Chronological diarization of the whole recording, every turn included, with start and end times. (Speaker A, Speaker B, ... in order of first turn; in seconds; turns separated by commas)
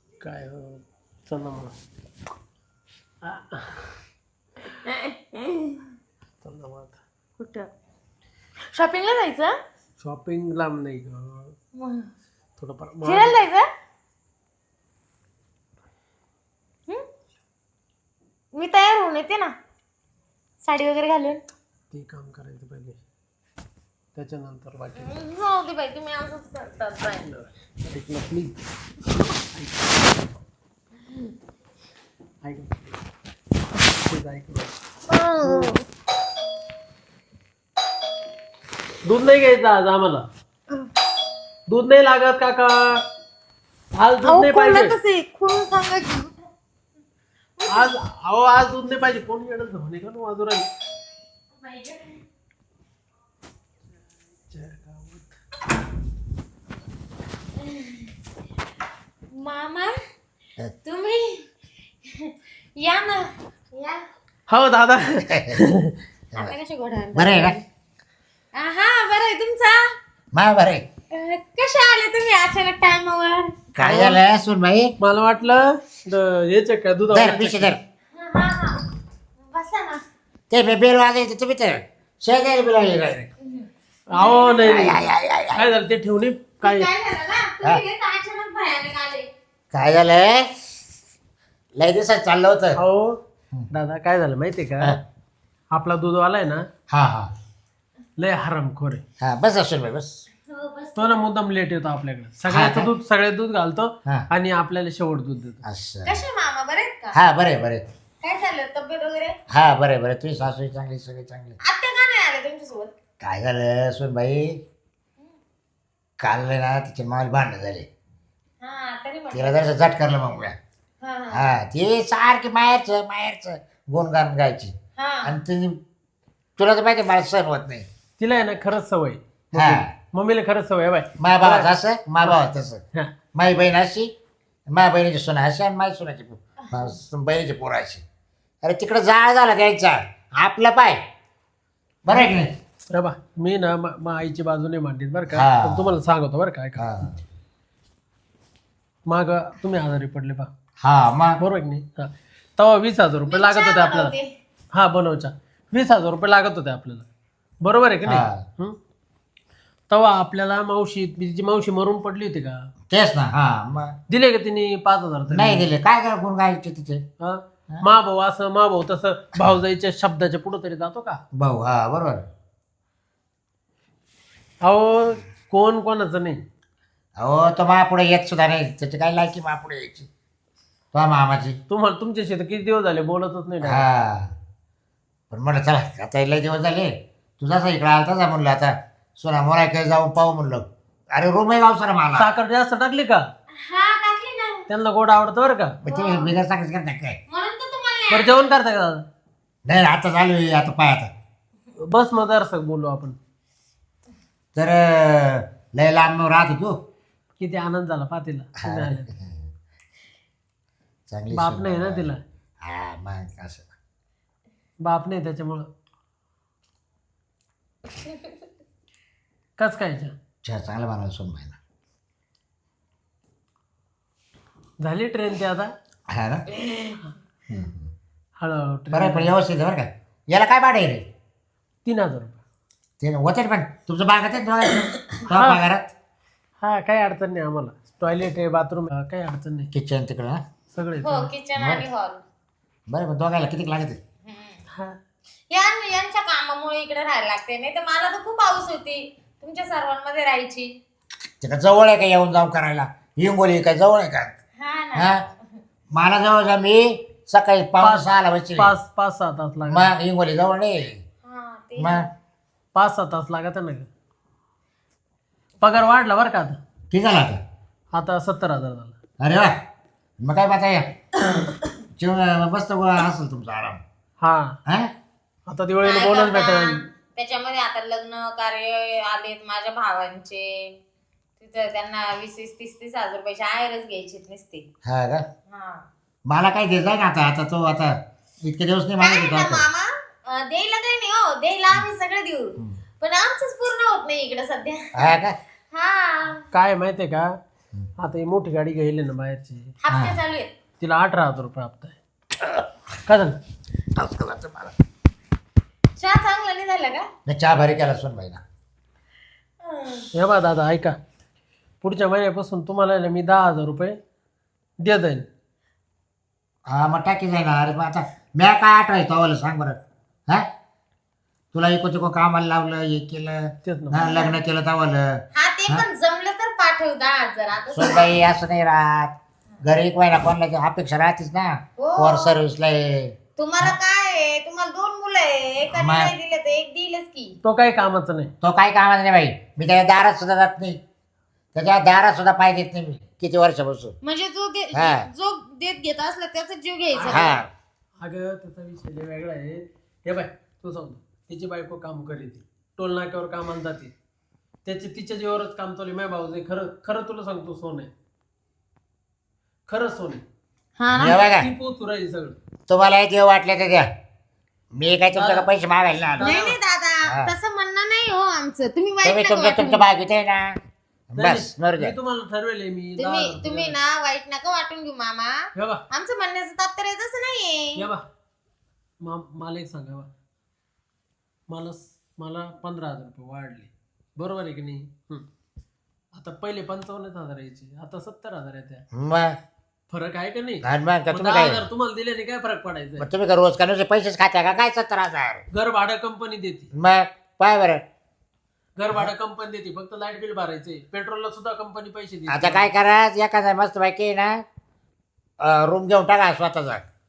Speaker A: 0.2-1.7, Speaker A: 3.2-3.9, Speaker B: 4.8-5.9, Speaker A: 6.4-7.0, Speaker B: 7.4-7.7, Speaker B: 8.7-9.6, Speaker A: 10.0-11.5, Speaker B: 11.8-12.1, Speaker A: 12.6-13.4, Speaker B: 13.1-13.7, Speaker B: 18.5-19.6, Speaker B: 20.6-21.4, Speaker A: 21.9-23.0, Speaker A: 24.1-25.1, Speaker B: 25.0-27.3, Speaker A: 27.2-28.6, Speaker A: 29.4-30.4, Speaker A: 32.4-32.9, Speaker A: 34.0-34.7, Speaker B: 35.1-35.8, Speaker A: 35.4-35.7, Speaker A: 39.0-40.3, Speaker A: 41.7-43.0, Speaker A: 44.0-45.0, Speaker B: 44.2-46.4, Speaker B: 47.6-47.9, Speaker A: 47.7-50.7, Speaker B: 51.6-52.2, Speaker A: 54.5-55.3, Speaker B: 57.6-58.1, Speaker B: 59.3-60.0, Speaker B: 60.8-61.5, Speaker B: 62.1-64.0, Speaker A: 64.5-65.9, Speaker C: 65.3-65.6, Speaker B: 66.4-67.6, Speaker C: 67.2-67.5, Speaker B: 68.5-69.9, Speaker C: 70.3-70.9, Speaker B: 71.1-73.6, Speaker C: 73.8-74.9, Speaker A: 73.8-74.2, Speaker A: 75.0-77.8, Speaker C: 77.1-77.8, Speaker B: 78.1-78.8, Speaker B: 79.4-80.0, Speaker C: 80.5-83.3, Speaker B: 83.4-84.8, Speaker A: 84.1-85.0, Speaker C: 84.6-85.7, Speaker A: 85.5-86.9, Speaker B: 86.6-89.3, Speaker C: 89.7-90.5, Speaker C: 91.8-92.8, Speaker A: 92.8-93.2, Speaker A: 93.7-95.0, Speaker A: 95.7-96.7, Speaker C: 96.9-97.3, Speaker A: 98.2-99.0, Speaker C: 99.2-100.2, Speaker B: 100.5-101.2, Speaker A: 101.0-105.6, Speaker C: 102.5-102.9, Speaker C: 105.6-106.2, Speaker B: 106.0-107.2, Speaker C: 107.1-107.8, Speaker B: 108.2-109.4, Speaker C: 109.5-111.6, Speaker B: 111.6-113.0, Speaker C: 113.2-114.6, Speaker C: 116.2-117.9, Speaker B: 118.6-119.7, Speaker C: 119.3-120.6, Speaker B: 121.0-121.5, Speaker C: 121.3-125.8, Speaker B: 125.0-125.4, Speaker C: 126.6-127.9, Speaker A: 128.2-131.7, Speaker C: 129.5-129.9, Speaker C: 131.2-132.8, Speaker C: 133.3-134.1, Speaker C: 134.7-138.0, Speaker C: 138.6-141.0, Speaker C: 142.1-142.5, Speaker A: 142.9-146.9, Speaker C: 145.3-145.9, Speaker C: 146.8-147.2, Speaker A: 149.1-150.5, Speaker C: 150.8-151.4, Speaker A: 151.4-154.1, Speaker B: 153.3-154.3, Speaker A: 154.7-157.1, Speaker A: 157.6-158.8, Speaker C: 158.1-158.4, Speaker A: 159.9-162.7, Speaker C: 162.9-164.0, Speaker A: 164.1-165.7, Speaker C: 165.3-167.0, Speaker A: 167.2-171.2, Speaker C: 171.4-172.3, Speaker A: 174.6-176.4, Speaker C: 177.2-180.1, Speaker C: 180.9-181.6, Speaker A: 181.7-183.9, Speaker C: 183.6-184.3, Speaker C: 185.3-192.3, Speaker A: 192.2-193.3, Speaker B: 193.6-194.7, Speaker A: 194.7-195.8, Speaker B: 195.8-196.3, Speaker C: 195.8-197.2, Speaker B: 197.3-198.4, Speaker A: 198.1-199.1, Speaker C: 199.7-201.1, Speaker A: 201.8-203.2, Speaker C: 204.6-206.8, Speaker A: 207.4-209.1, Speaker C: 208.6-209.4, Speaker C: 211.1-212.1, Speaker A: 211.3-212.2, Speaker C: 212.6-213.7, Speaker A: 214.8-215.7, Speaker A: 219.6-220.1, Speaker C: 220.4-221.6, Speaker A: 224.8-225.7, Speaker C: 226.1-226.5, Speaker C: 227.5-227.9, Speaker A: 228.4-229.3, Speaker C: 228.9-231.1, Speaker A: 231.8-232.4, Speaker C: 233.0-235.9, Speaker A: 235.2-235.6, Speaker A: 236.6-239.7, Speaker C: 239.7-240.4, Speaker A: 240.7-241.3, Speaker B: 241.0-242.2, Speaker C: 241.6-241.8, Speaker C: 242.9-244.0, Speaker B: 244.3-244.6, Speaker B: 245.5-250.8, Speaker C: 251.4-254.4, Speaker B: 254.6-255.2, Speaker C: 254.9-255.2, Speaker C: 255.9-258.7, Speaker A: 258.6-259.9, Speaker C: 259.7-261.0, Speaker B: 261.2-262.1, Speaker C: 261.8-262.1, Speaker A: 262.8-263.9, Speaker A: 265.6-266.6, Speaker C: 266.9-267.4, Speaker A: 267.9-268.9, Speaker C: 269.2-269.6, Speaker C: 270.2-271.0, Speaker C: 272.0-273.8, Speaker A: 274.2-274.6, Speaker C: 274.7-274.9, Speaker A: 275.5-276.8, Speaker B: 275.8-280.8, Speaker B: 281.4-284.7, Speaker C: 284.9-285.3, Speaker B: 285.5-285.9, Speaker C: 286.3-289.6, Speaker B: 289.0-295.1, Speaker C: 294.9-295.4, Speaker B: 295.7-296.5, Speaker A: 296.5-297.4, Speaker A: 298.0-299.7, Speaker B: 299.8-300.5, Speaker C: 299.9-300.2, Speaker A: 300.8-302.0, Speaker C: 302.4-302.7, Speaker A: 303.1-303.4, Speaker C: 304.0-304.8, Speaker B: 306.0-307.1, Speaker C: 307.3-308.4, Speaker B: 309.6-310.1, Speaker A: 310.1-311.0, Speaker A: 311.8-314.0, Speaker A: 314.8-315.3, Speaker C: 316.7-320.5, Speaker C: 321.5-325.9, Speaker A: 323.6-324.0, Speaker B: 323.9-324.4, Speaker B: 325.3-328.1, Speaker C: 327.7-333.8, Speaker B: 331.8-332.4, Speaker B: 333.4-337.4, Speaker C: 335.7-336.1, Speaker A: 337.4-338.3, Speaker C: 338.4-340.8, Speaker C: 341.5-343.9, Speaker B: 344.0-347.4, Speaker C: 344.7-345.1, Speaker A: 346.9-347.4, Speaker C: 347.1-347.5, Speaker A: 348.0-353.9, Speaker A: 354.6-357.9, Speaker A: 359.7-360.2, Speaker B: 360.8-361.2, Speaker C: 360.9-361.5, Speaker A: 361.0-362.4, Speaker C: 362.7-363.9, Speaker C: 364.7-366.3, Speaker A: 365.1-365.5, Speaker A: 366.1-366.6, Speaker B: 366.2-369.9, Speaker C: 367.1-367.3, Speaker C: 369.0-370.6, Speaker C: 371.1-371.9, Speaker A: 371.2-373.8, Speaker B: 373.0-375.4, Speaker A: 375.6-375.8, Speaker B: 375.9-377.9, Speaker A: 377.8-378.0, Speaker A: 379.0-380.1, Speaker A: 381.5-385.2, Speaker A: 386.1-388.8, Speaker C: 388.9-389.4, Speaker A: 389.9-393.1, Speaker C: 390.6-391.6, Speaker C: 393.0-395.4, Speaker A: 395.5-396.7, Speaker C: 396.7-397.8, Speaker A: 398.8-402.7, Speaker C: 402.3-404.4, Speaker C: 405.4-406.9